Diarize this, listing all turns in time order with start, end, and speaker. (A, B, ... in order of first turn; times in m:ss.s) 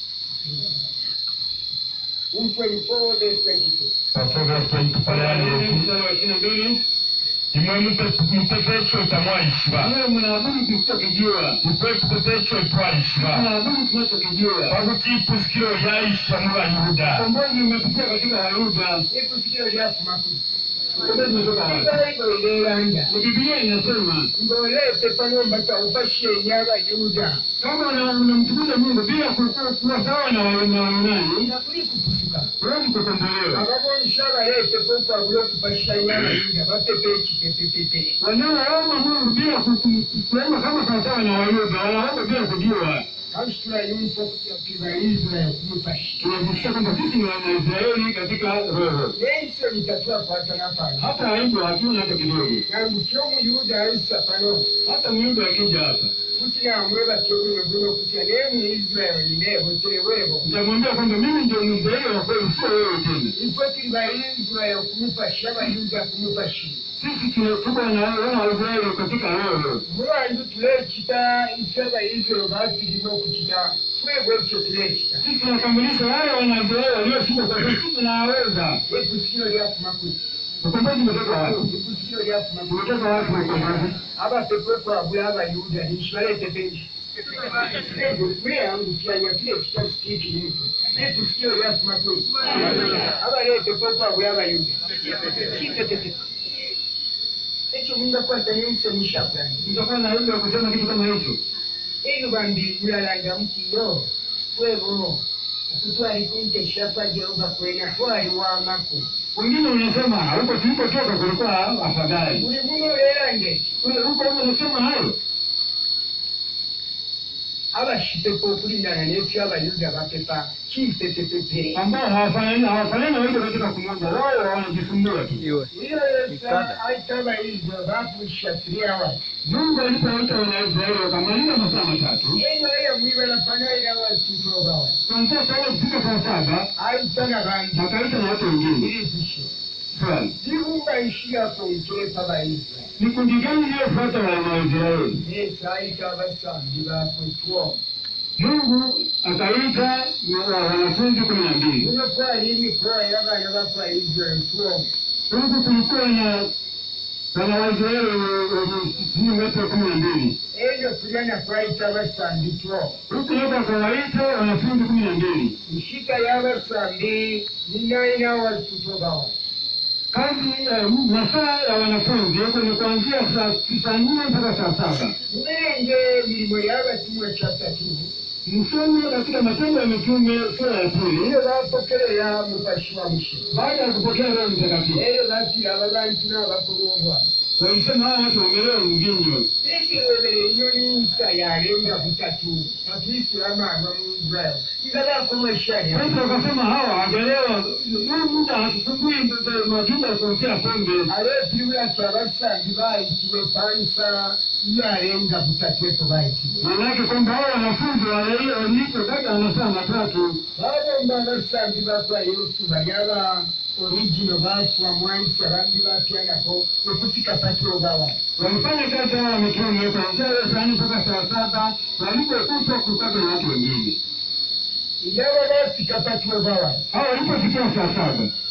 0:02.3-0:04.0 A
0:04.1-0:05.9 B
0:05.0-0:06.8 C
0:07.5-0:09.9 B
0:09.8-0:11.6 C
0:11.6-0:13.5 B
0:13.1-0:14.8 C
0:14.7-0:17.3 B
0:17.0-0:19.0 C
0:19.1-0:20.4 A
0:21.0-0:21.9 C
0:21.4-0:23.1 A
0:23.1-0:24.3 C
0:24.4-0:27.4 A
0:27.6-0:31.5 C
0:31.4-0:32.5 A
0:32.6-0:33.6 C
0:33.5-0:38.2 A
0:38.2-0:43.0 C
0:43.3-0:46.3 A
0:46.2-0:49.2 C
0:49.2-0:51.1 A
0:51.0-0:52.6 C
0:52.7-0:54.7 A
0:54.8-0:56.1 C
0:56.4-1:00.5 A
1:00.4-1:03.3 C
1:03.4-1:06.8 A
1:07.0-1:09.8 C
1:09.9-1:15.2 A
1:15.2-1:18.8 C
1:18.9-1:20.2 A
1:20.6-1:21.7 C
1:21.4-1:26.9 A
1:22.7-1:24.0 C
1:27.4-1:36.2 A
1:37.7-1:39.7 A
1:39.6-1:41.4 C
1:42.0-1:49.1 A
1:49.4-1:52.4 C
1:52.4-1:53.8 A
1:53.8-1:55.2 C
1:57.7-2:01.8 A
2:01.8-2:05.5 C
2:05.7-2:09.2 A
2:09.4-2:12.4 C
2:12.4-2:15.0 A
2:15.1-2:16.7 C
2:16.8-2:17.9 A
2:17.7-2:18.9 C
2:18.8-2:19.5 A
2:19.9-2:20.4 C
2:20.4-2:22.9 A
2:23.0-2:25.2 C
2:25.2-2:27.8 A
2:28.4-2:31.9 C
2:31.8-2:34.9 A
2:35.3-2:36.5 C
2:37.3-2:40.4 C
2:40.5-2:43.0 A
2:43.1-2:45.6 C
2:45.7-2:49.3 A
2:50.1-2:55.1 C
2:55.3-2:58.1 A
2:58.4-3:01.4 C
3:01.2-3:03.5 A
3:03.5-3:05.0 C
3:04.9-3:07.3 A
3:07.6-3:09.5 C
3:09.6-3:16.2 A
3:15.9-3:21.1 C
3:21.1-3:26.7 A
3:26.6-3:30.4 C
3:30.6-3:38.2 A
3:38.4-3:44.0 C
3:45.0-3:46.8 A
3:46.9-3:48.3 C